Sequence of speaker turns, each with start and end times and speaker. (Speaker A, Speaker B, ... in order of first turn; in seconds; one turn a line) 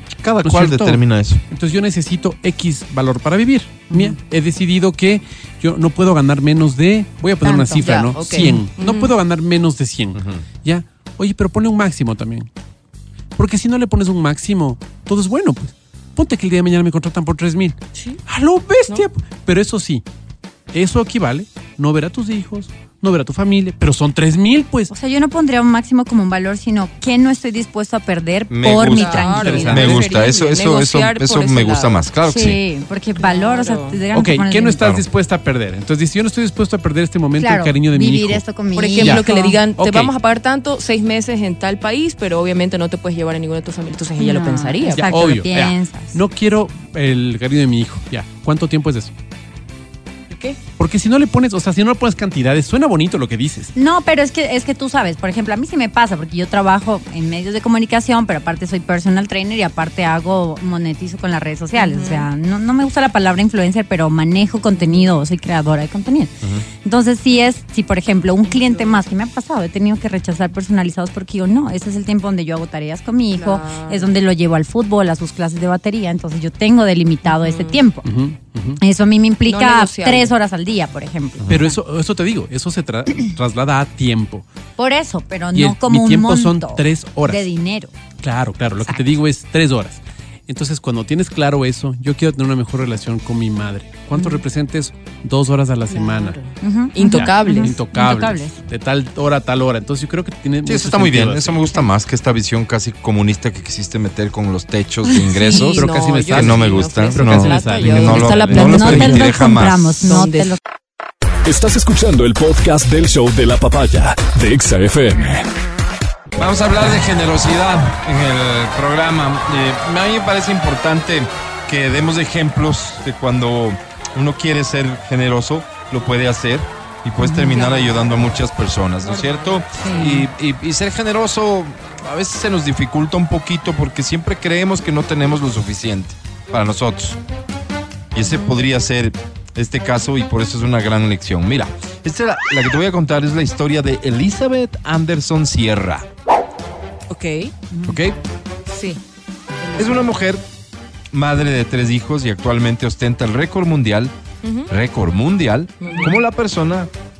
Speaker A: 0.2-1.4
Speaker B: 0.4-12.5
Speaker C: 3.9-4.2
Speaker C: 7.4-7.9
Speaker D: 7.8-9.1
Speaker A: 10.1-10.4
Speaker B: 13.4-20.0
Speaker D: 17.9-18.2
Speaker B: 20.7-24.9
Speaker C: 24.9-30.0
Speaker A: 28.5-32.6
Speaker D: 28.9-32.0
Speaker B: 29.3-30.1
Speaker C: 32.2-34.8
Speaker D: 33.2-34.0
Speaker B: 34.1-38.4
Speaker A: 34.8-35.0
Speaker C: 37.4-39.6
Speaker D: 38.8-45.1
Speaker B: 39.0-40.1
Speaker C: 44.2-46.2
Speaker B: 44.9-49.1
Speaker D: 50.3-50.6
Speaker B: 50.8-53.7
Speaker C: 53.7-78.1
Speaker D: 61.7-62.3
Speaker D: 64.8-65.1
Speaker D: 68.5-69.0
Speaker D: 73.3-74.1
Speaker D: 77.2-77.8
Speaker B: 78.0-78.8
Speaker C: 78.8-81.7
Speaker D: 79.5-80.3
Speaker B: 81.5-84.4
Speaker C: 84.8-87.9
Speaker B: 85.5-87.5
Speaker B: 88.2-96.4
Speaker C: 88.8-89.1
Speaker D: 95.9-97.8
Speaker C: 96.6-98.6
Speaker B: 97.0-101.6
Speaker A: 100.6-110.0
Speaker C: 105.2-105.6
Speaker D: 105.5-110.5
Speaker B: 105.6-109.2
Speaker C: 108.6-110.6
Speaker E: 111.4-115.5
Speaker A: 116.3-137.2
Speaker C: 127.2-127.7
Speaker D: 127.5-128.2
Speaker D: 129.0-130.1
Speaker C: 129.8-130.3
Speaker A: 138.1-146.1
Speaker D: 138.2-138.6
Speaker D: 147.1-147.5
Speaker C: 147.7-148.0
Speaker A: 147.9-148.2
Speaker D: 148.7-149.0
Speaker D: 149.6-150.1
Speaker A: 149.8-150.4
Speaker A: 151.1-154.1
Speaker D: 154.4-154.7
Speaker A: 154.7-156.9
Speaker D: 155.8-156.2